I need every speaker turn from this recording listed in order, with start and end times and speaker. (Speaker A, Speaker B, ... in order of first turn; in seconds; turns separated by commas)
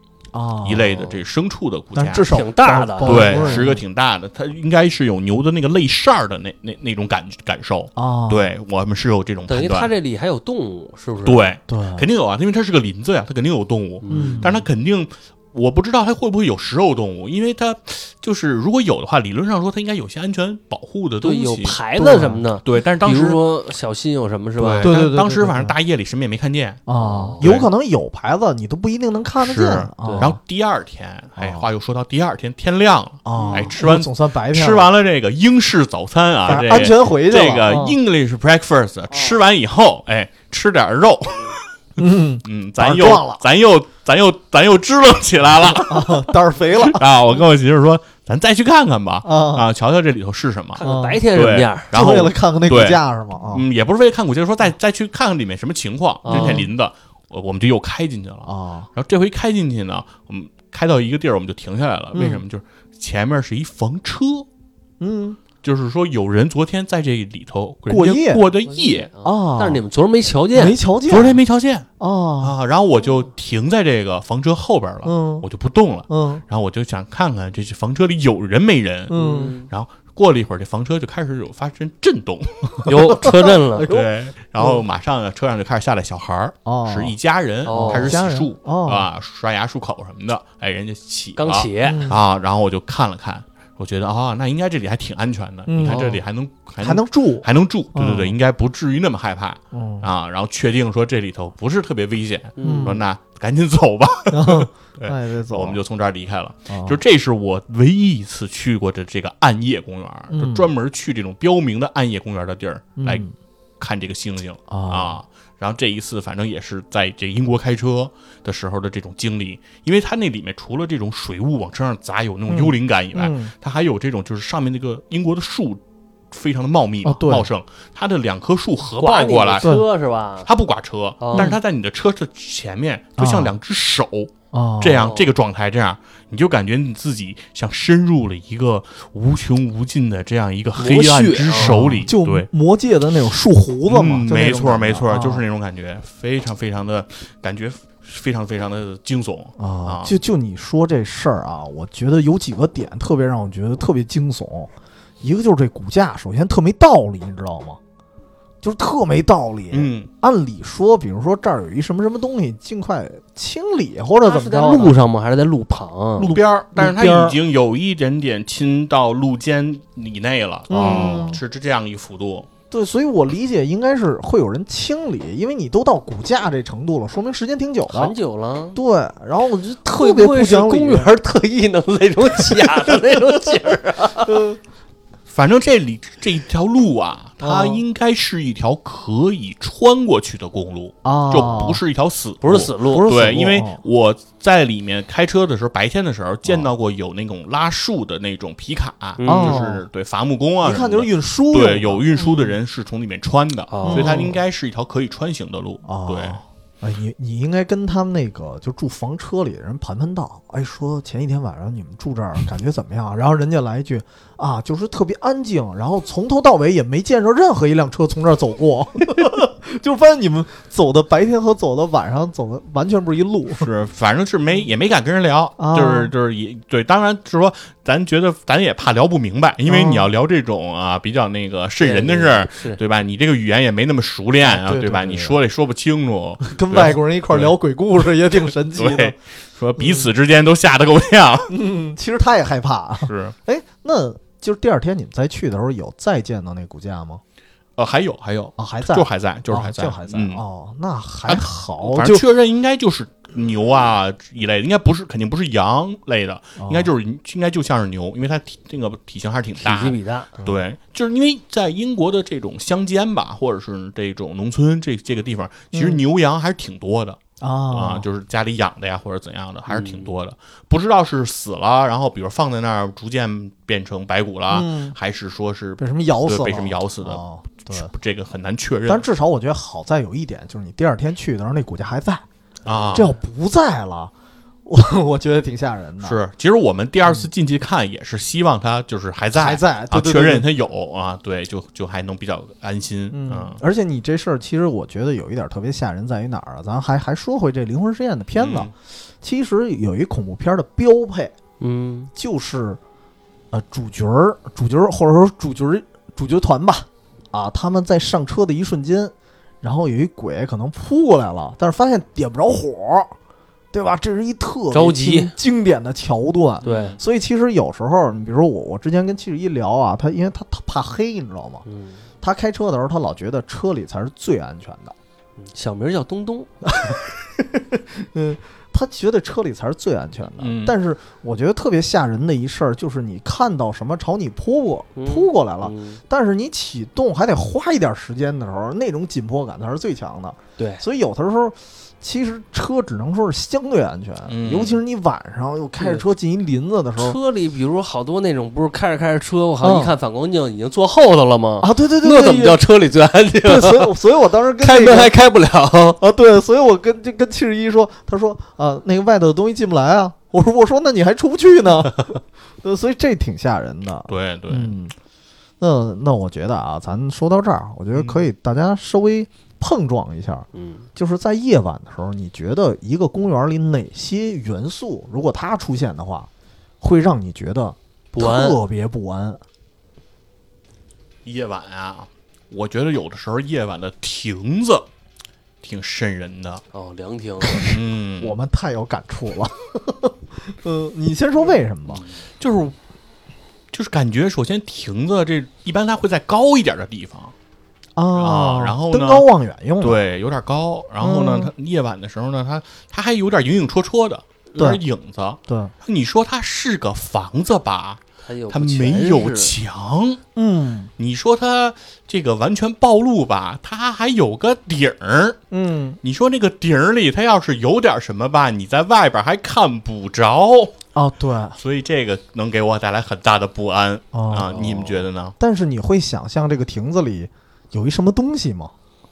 Speaker A: 0.3-0.9, Speaker B: 0.6-2.3, Speaker C: 0.9-1.2, Speaker A: 1.9-3.8, Speaker C: 2.2-3.7, Speaker B: 3.0-9.9, Speaker A: 8.0-8.4, Speaker C: 9.5-11.5, Speaker B: 11.2-21.8, Speaker A: 11.7-12.1, Speaker C: 14.0-14.5, Speaker A: 14.1-14.6, Speaker C: 21.2-25.0, Speaker A: 21.9-22.4, Speaker B: 22.6-23.4, Speaker B: 24.6-26.8, Speaker A: 24.8-25.7, Speaker A: 26.9-30.4, Speaker C: 27.0-27.5, Speaker B: 27.4-27.7, Speaker B: 29.4-41.6, Speaker C: 30.0-30.3, Speaker A: 31.4-31.7, Speaker A: 33.2-34.9, Speaker C: 33.4-33.8, Speaker A: 36.5-38.0, Speaker A: 42.0-43.4, Speaker B: 42.4-64.5, Speaker A: 45.8-47.0, Speaker A: 49.2-49.6, Speaker C: 50.8-51.9, Speaker A: 50.8-51.2, Speaker A: 51.9-53.6, Speaker C: 56.2-56.6, Speaker A: 56.3-56.7, Speaker A: 58.4-58.9, Speaker A: 62.1-62.4, Speaker A: 65.0-65.4, Speaker B: 65.6-69.1, Speaker A: 67.9-68.4, Speaker C: 68.7-70.8, Speaker A: 69.2-69.8, Speaker A: 70.5-71.4, Speaker B: 71.1-71.9, Speaker A: 72.0-72.5, Speaker B: 72.4-83.3, Speaker A: 75.0-75.5, Speaker A: 76.1-76.4, Speaker A: 79.1-79.6, Speaker C: 79.1-79.7, Speaker C: 82.8-83.9, Speaker A: 83.0-84.1, Speaker B: 83.8-113.2, Speaker A: 86.6-87.2, Speaker C: 87.7-88.2, Speaker A: 87.7-89.1, Speaker C: 91.4-92.1, Speaker A: 91.8-92.2, Speaker A: 95.7-96.2, Speaker C: 95.8-96.2, Speaker A: 96.8-98.3, Speaker A: 99.7-100.1, Speaker C: 102.6-103.0, Speaker A: 102.6-103.0, Speaker A: 104.3-105.8, Speaker A: 106.7-107.0, Speaker A: 110.3-110.7, Speaker A: 113.0-113.3, Speaker B: 113.8-129.7, Speaker A: 114.7-115.2, Speaker A: 122.5-123.5, Speaker A: 127.0-127.5, Speaker C: 128.9-130.5, Speaker B: 130.4-142.5, Speaker C: 131.2-131.5, Speaker A: 133.2-133.5, Speaker A: 134.5-135.1, Speaker C: 135.0-135.3, Speaker C: 140.8-141.9, Speaker A: 141.5-145.4, Speaker B: 143.9-150.2, Speaker A: 149.6-154.7, Speaker A: 155.2-157.8, Speaker A: 158.6-164.9, Speaker B: 159.7-160.1, Speaker C: 164.2-166.4, Speaker A: 166.2-167.4, Speaker B: 166.3-172.5, Speaker A: 170.7-171.4, Speaker C: 170.8-171.1, Speaker A: 172.7-178.1, Speaker C: 177.9-178.8, Speaker A: 178.7-181.1, Speaker C: 179.9-184.5, Speaker A: 182.5-182.8, Speaker A: 184.2-184.6, Speaker B: 185.3-206.4, Speaker A: 187.4-187.8, Speaker A: 191.0-191.8, Speaker C: 192.4-193.1, Speaker A: 192.8-193.8, Speaker C: 199.2-199.6, Speaker A: 199.2-199.8, Speaker A: 200.6-202.6, Speaker C: 203.7-204.3, Speaker A: 203.8-204.4, Speaker A: 205.8-223.7, Speaker B: 223.5-237.5, Speaker A: 225.6-226.1, Speaker A: 229.7-230.1, Speaker C: 231.8-232.8, Speaker A: 234.4-235.4, Speaker A: 236.4-239.1, Speaker B: 238.4-241.5, Speaker A: 239.8-240.1, Speaker A: 241.5-247.2, Speaker B: 243.0-243.3, Speaker B: 247.8-250.4, Speaker A: 248.6-252.2, Speaker B: 251.2-267.2, Speaker A: 256.6-256.9, Speaker C: 259.6-260.4, Speaker A: 265.7-266.0, Speaker A: 267.4-268.1, Speaker B: 267.7-279.0, Speaker C: 269.7-270.1, Speaker A: 274.5-274.9, Speaker A: 275.8-277.9, Speaker A: 278.9-282.2, Speaker B: 282.6-283.1, Speaker A: 282.9-284.1, Speaker A: 284.7-286.2, Speaker B: 286.0-293.6, Speaker A: 289.4-290.5, Speaker A: 293.1-301.3, Speaker B: 298.4-298.7, Speaker C: 301.6-302.1, Speaker A: 302.1-302.8, Speaker A: 303.5-313.1, Speaker A: 313.7-321.6, Speaker C: 314.7-315.3, Speaker C: 316.6-317.0, Speaker B: 316.6-317.0, Speaker C: 321.6-322.0, Speaker A: 322.2-324.9, Speaker C: 325.4-326.5, Speaker A: 326.6-347.2, Speaker B: 330.4-330.8, Speaker C: 334.9-336.0, Speaker C: 340.6-340.8, Speaker B: 344.3-344.8, Speaker C: 345.8-346.0, Speaker C: 347.0-354.0, Speaker A: 349.6-349.9, Speaker A: 351.6-352.6, Speaker A: 353.4-355.1, Speaker C: 354.6-356.0, Speaker A: 356.0-364.9, Speaker B: 364.1-364.7, Speaker A: 365.6-376.3, Speaker B: 367.9-368.2, Speaker C: 370.5-370.9, Speaker A: 376.8-379.4, Speaker C: 378.1-378.6, Speaker B: 381.2-384.9, Speaker B: 385.6-386.6, Speaker C: 386.7-387.7, Speaker A: 387.6-392.0, Speaker B: 387.6-388.4, Speaker B: 391.9-392.8, Speaker B: 393.7-397.3, Speaker A: 397.9-400.0, Speaker B: 398.2-399.3, Speaker B: 399.8-410.2, Speaker A: 401.0-401.5, Speaker A: 405.5-405.7, Speaker C: 408.2-409.5, Speaker A: 410.4-410.9, Speaker B: 411.0-415.4, Speaker A: 415.5-416.0, Speaker B: 416.0-420.7, Speaker A: 420.9-421.6, Speaker B: 421.6-425.3, Speaker A: 424.1-428.7